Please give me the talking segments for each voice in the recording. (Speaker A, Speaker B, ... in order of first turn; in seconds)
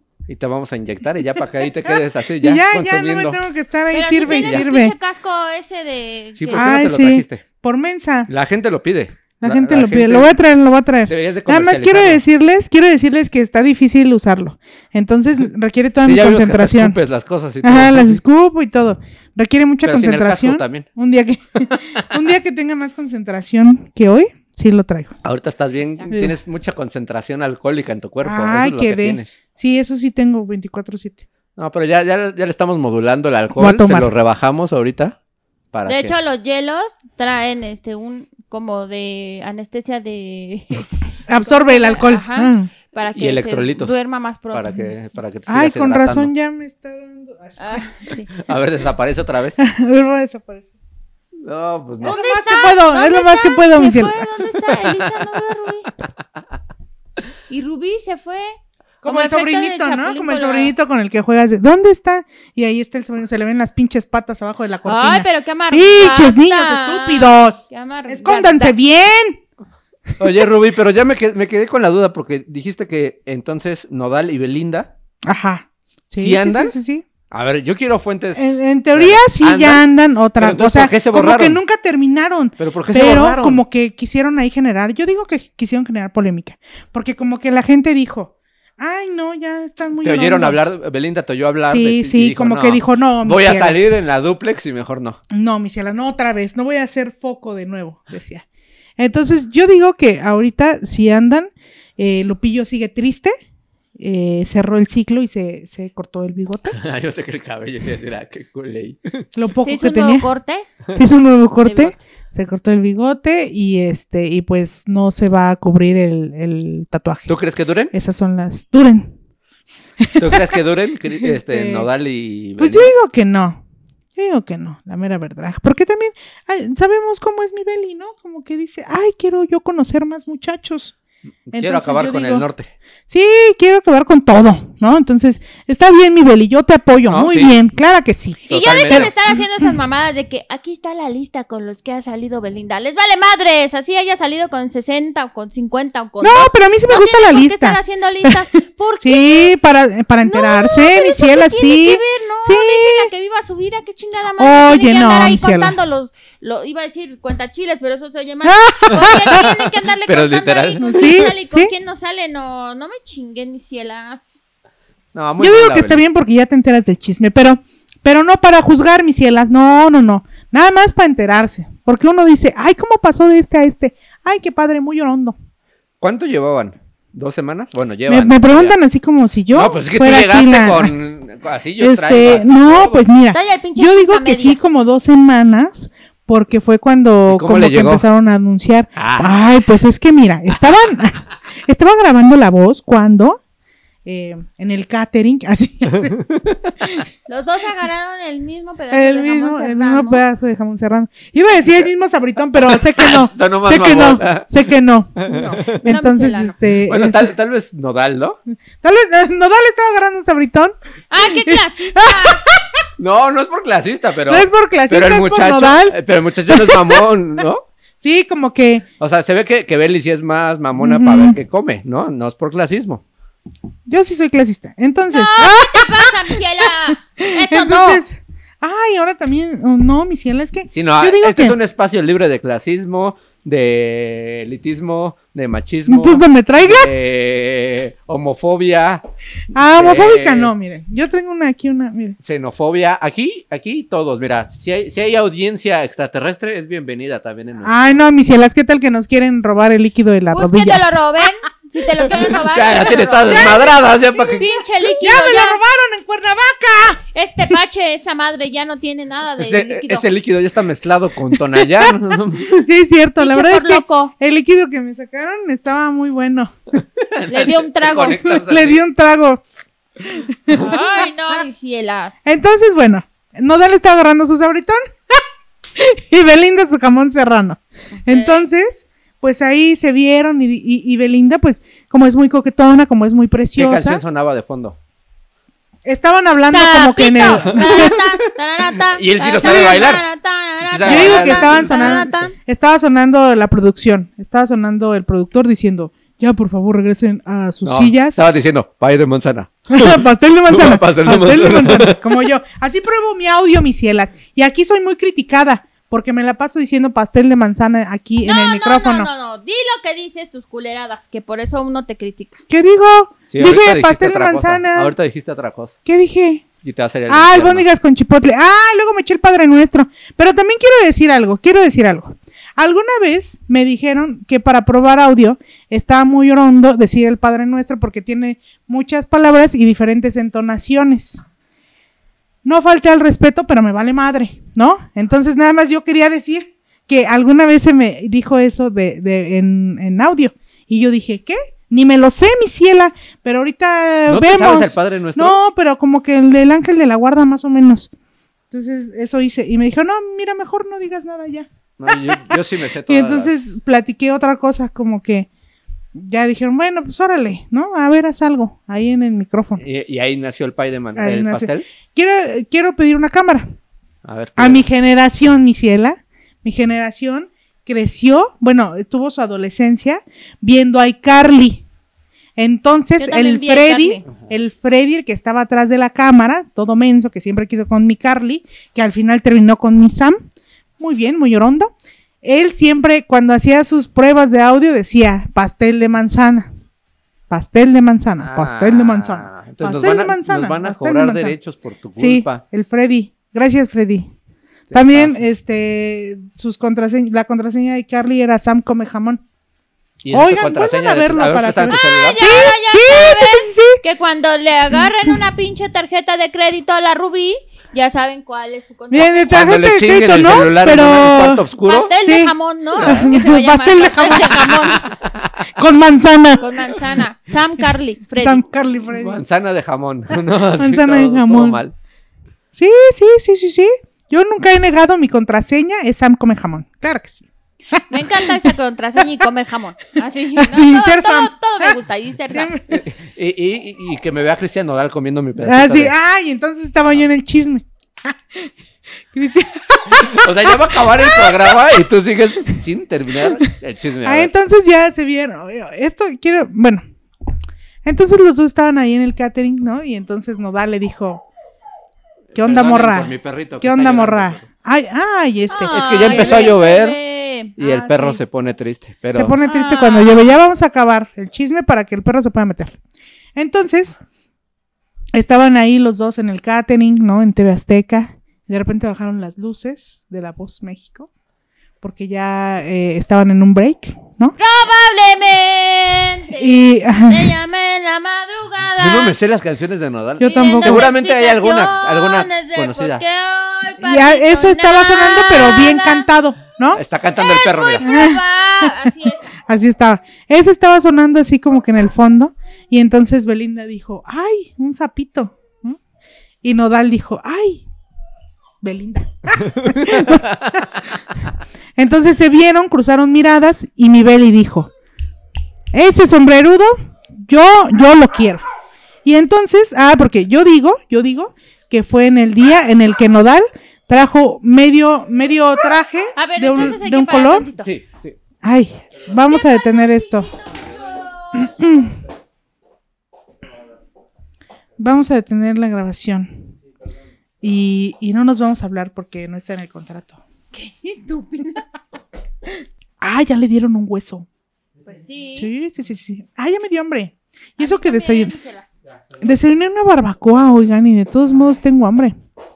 Speaker A: 0.3-3.4, 4.2-4.7, 6.3-7.4, 8.3-10.4, 11.1-12.2, 16.0-18.2, 19.8-20.9, 21.7-22.2, 25.2-29.3, 31.6-35.1, 35.7-36.1, 43.1-43.9, 44.5-46.3, 48.4-49.6, 51.4-52.2, 54.8-55.1, 70.2-74.9, 76.1-76.7, 77.3-79.8, 80.4-81.6, 82.6-83.6, 90.0-95.2, 106.7-109.3, 117.3-117.9, 120.2-122.9, 131.5-132.7, 137.1-137.6, 138.5-139.1, 159.0-161.2, 165.1-166.0, 176.0-178.8, 179.5-183.1, 187.3-188.0, 188.9-189.4, 195.9-196.9, 202.5-204.6, 205.2-205.8, 206.9-208.4, 213.0-217.7, 219.0-223.0, 230.7-239.0, 239.7-240.5, 242.2-248.0, 252.1-254.5, 259.4-262.6, 267.0-268.8, 283.6-284.8, 287.3-288.2, 288.7-290.0, 290.6-292.1, 297.6-302.3, 313.3-315.8, 316.6-317.6, 344.1-345.4, 351.8-353.4, 359.6-361.6, 364.0-364.6, 388.2-392.4, 394.7-395.2, 400.0-402.5, 409.3-411.9, 414.7-415.4, 418.9-421.7, 432.7-435.9, 439.9-444.3, 452.3-454.4, 455.7-457.0, 457.6-459.4, 478.8-483.0, 486.7-487.9, 499.6-500.2, 517.6-518.1
Speaker B: 1.9-4.9, 6.5-8.3, 9.4-17.0, 17.6-25.1, 26.1-26.3, 28.2-31.2, 33.6-34.1, 41.3-42.7, 45.5-47.9, 49.6-50.7, 52.0-54.3, 59.0-69.4, 75.2-77.0, 78.3-90.6, 91.7-93.8, 95.3-98.4, 99.0-103.3, 104.0-106.8, 109.3-110.3, 110.9-117.3, 117.9-119.1, 120.0-120.6, 121.2-121.9, 122.6-123.6, 124.1-130.9, 131.5-132.4, 133.1-139.4, 146.2-148.3, 149.0-153.1, 154.4-155.7, 158.4-159.4, 160.8-161.7, 165.4-175.4, 178.1-180.9, 181.8-193.4, 194.0-196.2, 198.9-207.3, 208.8-210.7, 211.3-212.8, 214.3-217.1, 218.0-218.8, 220.8-221.4, 223.9-231.6, 235.9-236.9, 239.5-242.2, 247.6-251.0, 253.3-257.0, 261.3-261.9, 262.5-266.8, 268.2-269.4, 270.0-271.4, 272.2-275.2, 275.8-284.0, 285.8-288.0, 289.4-289.9, 290.8-298.2, 299.7-309.1, 312.5-314.9, 315.9-316.4, 317.1-331.2, 332.4-347.9, 348.5-355.3, 355.9-359.6, 360.9-363.5, 364.4-371.6, 372.4-380.2, 380.8-381.7, 382.2-386.5, 387.3-391.4, 391.9-394.1, 394.7-399.2, 400.1-403.8, 404.7-405.1, 408.9-411.4, 412.0-414.8, 415.6-416.7, 418.2-419.2, 420.4-421.6, 422.5-429.2, 430.4-431.8, 432.3-432.6, 435.4-438.5, 439.1-441.6, 444.0-446.8, 447.8-451.2, 452.3-456.6, 457.6-458.2, 459.1-462.8, 463.4-464.0, 465.1-471.1, 471.8-474.4, 476.4-477.3, 480.2-480.9, 483.8-486.8, 487.8-488.9, 489.5-495.8, 496.4-497.6, 498.6-500.8, 501.8-504.7, 505.7-508.4, 509.0-517.5, 518.4-520.3, 521.3-522.0, 524.8-526.3, 527.4-530.2, 533.0-534.3, 535.4-538.3, 539.2-542.1
Speaker C: 3.9-6.7, 35.9-44.9, 47.6-48.3, 52.0-55.9, 57.5-60.7, 64.8-68.7, 109.6-110.7, 111.6-111.9, 138.5-149.5, 150.2-164.4, 183.3-184.6, 197.3-200.2, 205.3-206.6, 211.1-212.4, 225.1-228.0, 250.3-255.6, 257.1-260.1, 263.2-264.1, 267.3-268.2, 270.5-272.2, 278.1-278.5, 286.5-292.3, 308.2-312.4, 373.0-374.0, 401.7-409.3, 411.6-414.8, 416.4-418.4, 427.8-432.5, 455.5-457.6, 459.4-460.3, 474.4-479.1, 480.2-486.1, 487.1-489.3, 516.1-517.7, 519.3-521.9, 530.5-531.6, 534.8-535.5, 537.6-538.8